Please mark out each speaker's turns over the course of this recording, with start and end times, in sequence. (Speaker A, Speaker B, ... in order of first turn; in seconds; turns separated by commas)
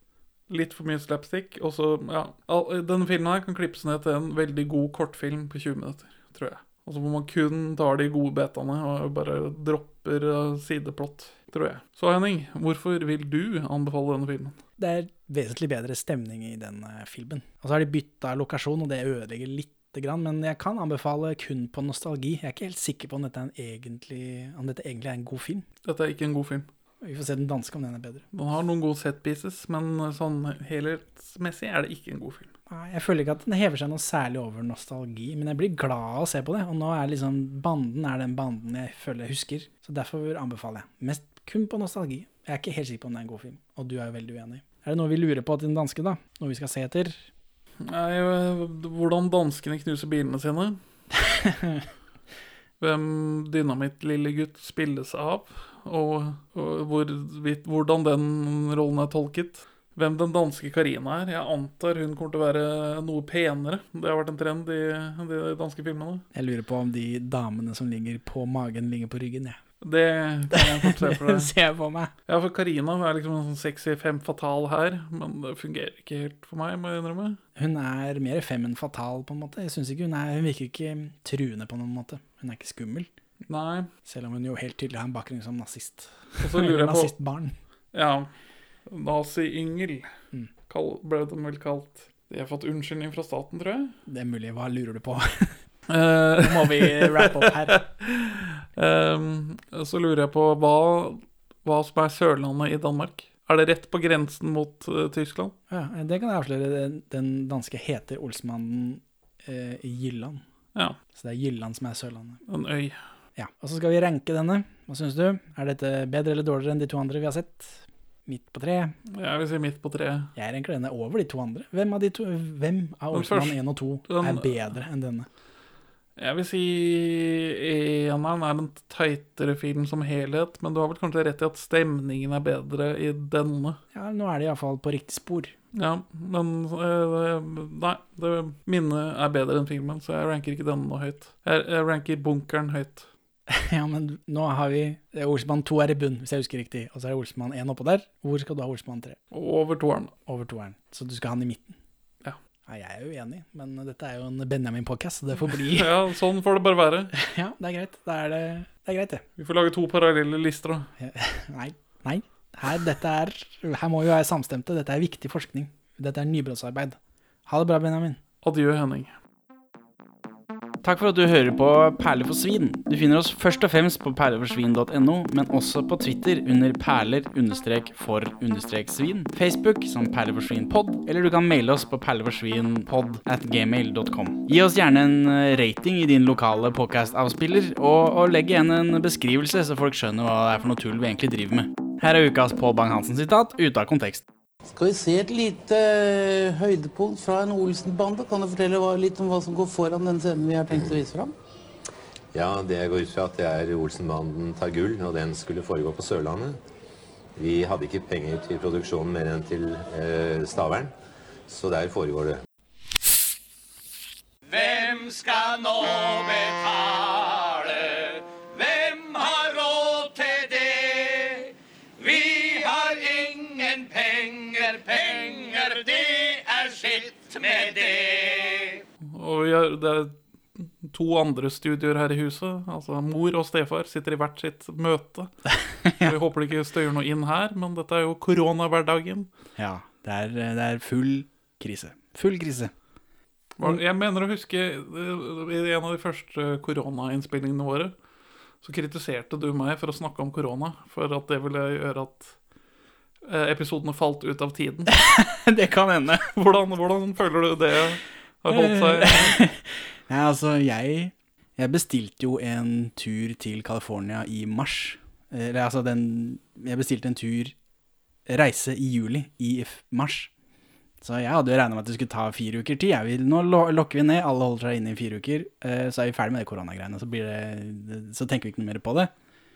Speaker A: 0.5-14.6, Speaker B: 14.8-25.6, Speaker A: 25.9-26.7, Speaker B: 27.0-28.2, Speaker A: 28.3-32.5, Speaker B: 32.7-47.3, Speaker A: 47.8-50.8, Speaker B: 51.4-51.9, Speaker A: 52.8-66.2, Speaker B: 66.3-69.6, Speaker A: 69.8-71.5, Speaker B: 70.5-72.1, Speaker A: 72.3-77.4, Speaker B: 77.6-83.1, Speaker A: 83.5-83.9, Speaker B: 84.1-87.5, Speaker A: 86.4-87.1, Speaker A: 87.9-88.3, Speaker A: 88.9-90.1, Speaker A: 90.7-93.9, Speaker B: 94.1-95.5, Speaker A: 95.9-105.5, Speaker B: 96.4-97.8, Speaker B: 105.7-110.4, Speaker B: 111.2-112.4, Speaker A: 112.5-113.0, Speaker B: 113.4-119.0, Speaker A: 119.1-120.3, Speaker B: 120.4-125.3, Speaker A: 123.1-124.6, Speaker A: 126.2-133.8, Speaker B: 133.9-135.5, Speaker A: 135.7-143.1, Speaker B: 143.5-149.2, Speaker A: 149.3-150.1, Speaker B: 150.3-151.8, Speaker B: 152.7-155.9, Speaker A: 155.7-157.1, Speaker B: 157.1-159.2, Speaker A: 159.4-160.9, Speaker B: 161.0-168.2, Speaker A: 168.4-169.1, Speaker B: 170.8-194.2, Speaker C: 194.7-201.3, Speaker D: 200.7-201.0, Speaker D: 202.3-206.6, Speaker D: 207.4-210.9, Speaker D: 211.5-212.4, Speaker E: 214.5-221.5, Speaker E: 222.0-228.8, Speaker A: 229.1-235.3, Speaker B: 235.9-236.1, Speaker A: 236.0-239.3, Speaker B: 239.6-242.7, Speaker A: 243.6-247.9, Speaker A: 248.6-252.4, Speaker A: 253.3-254.9, Speaker B: 254.9-256.3, Speaker A: 256.3-259.4, Speaker B: 258.5-267.5, Speaker B: 268.3-270.3, Speaker B: 271.0-279.1